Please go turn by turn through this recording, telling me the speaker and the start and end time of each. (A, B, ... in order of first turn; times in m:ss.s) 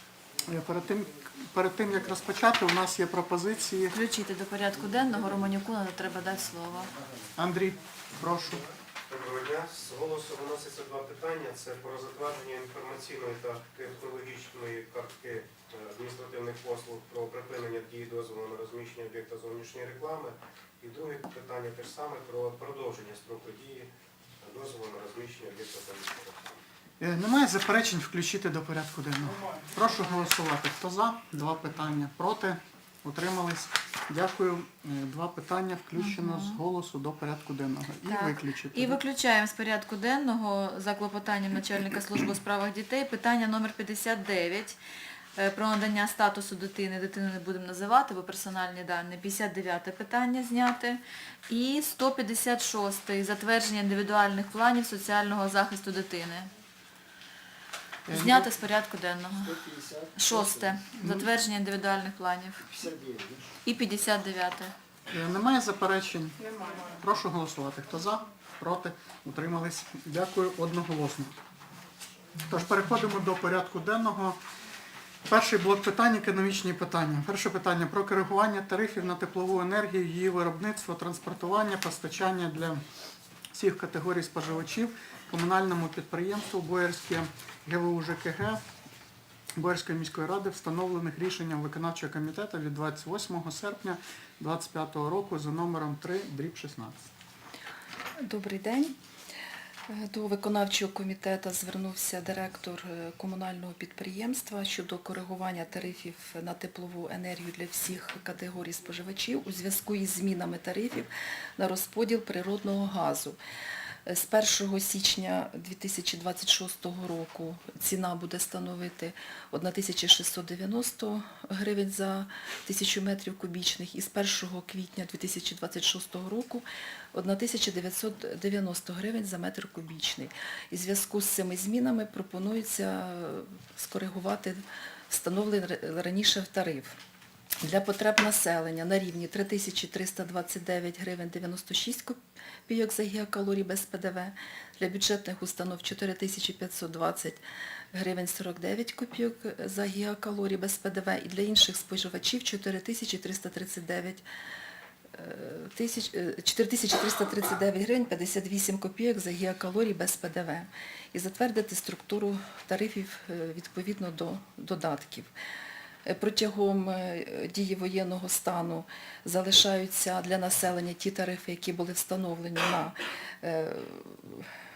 0:00.4-0:03.9 A
0:03.9-0:06.9 B
0:07.4-0:08.7 A
0:09.1-0:23.9 C
0:24.4-0:26.6 C
0:27.0-0:39.0 A
0:36.0-0:36.6 B
0:38.0-0:44.8 B
0:45.4-0:56.5 B
0:58.1-0:58.5 A
0:58.1-0:59.6 B
0:59.4-1:00.7 D
1:00.2-1:02.7 B
1:00.9-1:01.3 A
1:02.7-1:03.5 D
1:03.6-1:04.7 B
1:05.1-1:11.4 A
1:12.4-1:14.4 A
1:15.2-1:22.8 A
1:23.5-1:28.6 A
1:29.6-1:37.0 A
1:38.2-1:38.9 E
1:39.9-1:53.4 E
1:54.0-2:17.0 E
2:17.6-2:27.4 E
2:27.9-2:34.2 E
2:35.1-2:45.3 E
2:46.0-2:54.5 E